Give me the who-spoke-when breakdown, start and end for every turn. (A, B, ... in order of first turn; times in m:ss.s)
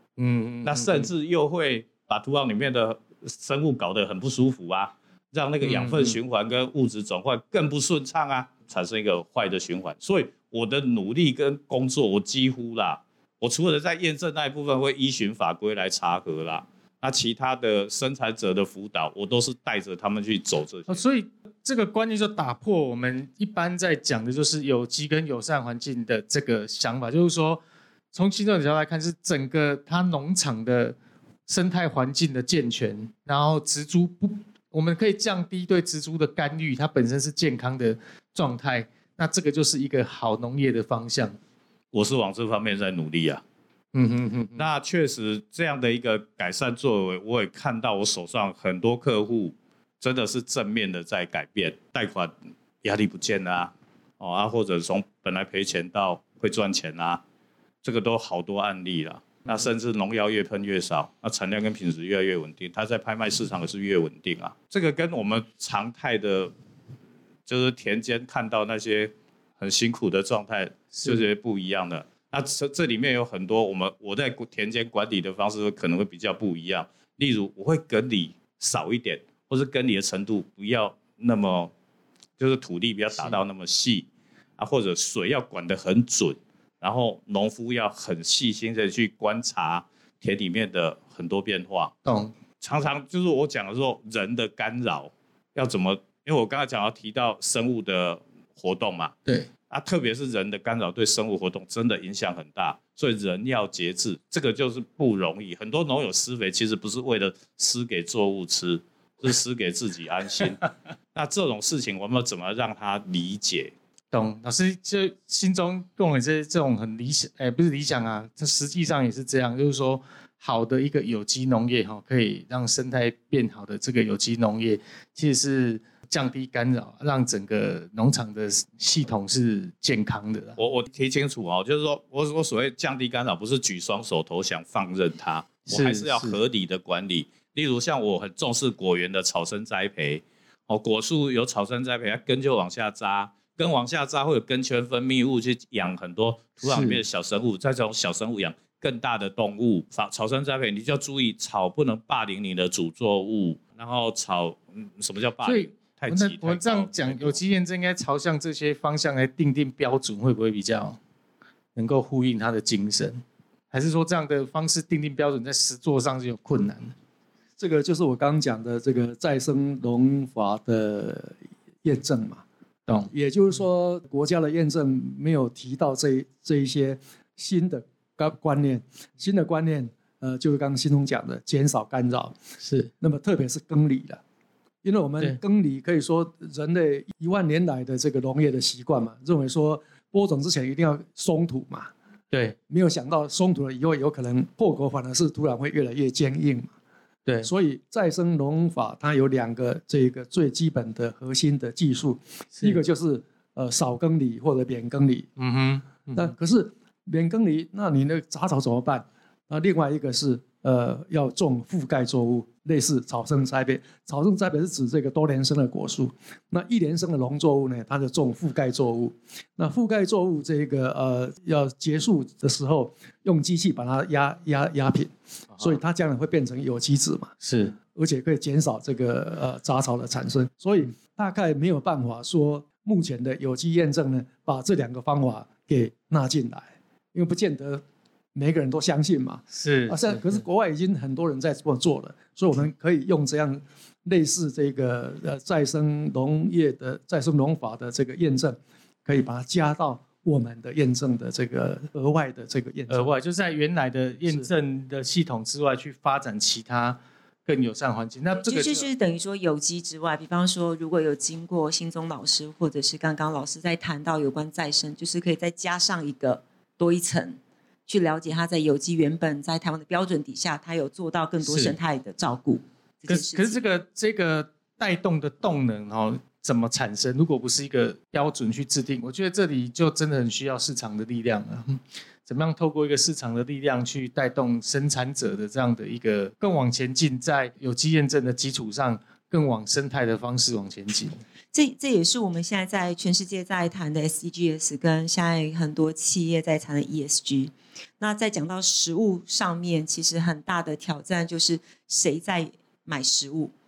0:00.2-0:01.1 A
0:00.6-0:21.0 B
0:05.6-0:06.2 A
0:20.9-0:27.6 A
0:28.1-0:31.0 A
0:31.5-0:41.4 A
0:41.9-0:43.4 B
0:43.9-0:44.7 A
0:44.6-0:57.2 B
0:57.8-1:06.5 B
1:07.5-1:21.7 B
1:11.0-1:11.3 A
1:22.4-1:24.1 B
1:23.1-1:23.4 A
1:24.6-1:31.9 B
1:32.0-1:32.3 A
1:32.6-1:39.1 B
1:39.7-1:53.7 B
1:54.1-2:10.6 A
2:10.6-2:37.4 B
2:15.7-2:16.4 A
2:26.6-2:27.0 A
2:35.4-2:41.0 A
2:41.8-2:46.9 A
2:47.6-2:52.4 C
2:53.1-3:02.4 C
3:02.6-3:02.9 A
3:03.0-3:04.2 C
3:04.8-3:11.9 C
3:12.3-3:12.6 A
3:12.7-3:16.7 C
3:17.4-3:25.3 C
3:25.4-3:26.3 A
3:26.1-3:47.3 C
3:47.4-3:47.8 A
3:48.0-3:57.8 C
3:58.4-4:13.2 C
3:59.5-4:00.4 A
4:12.9-4:18.9 A
4:18.4-4:33.6 D
4:31.4-4:31.8 A
4:33.1-4:51.2 A
4:51.5-5:03.5 D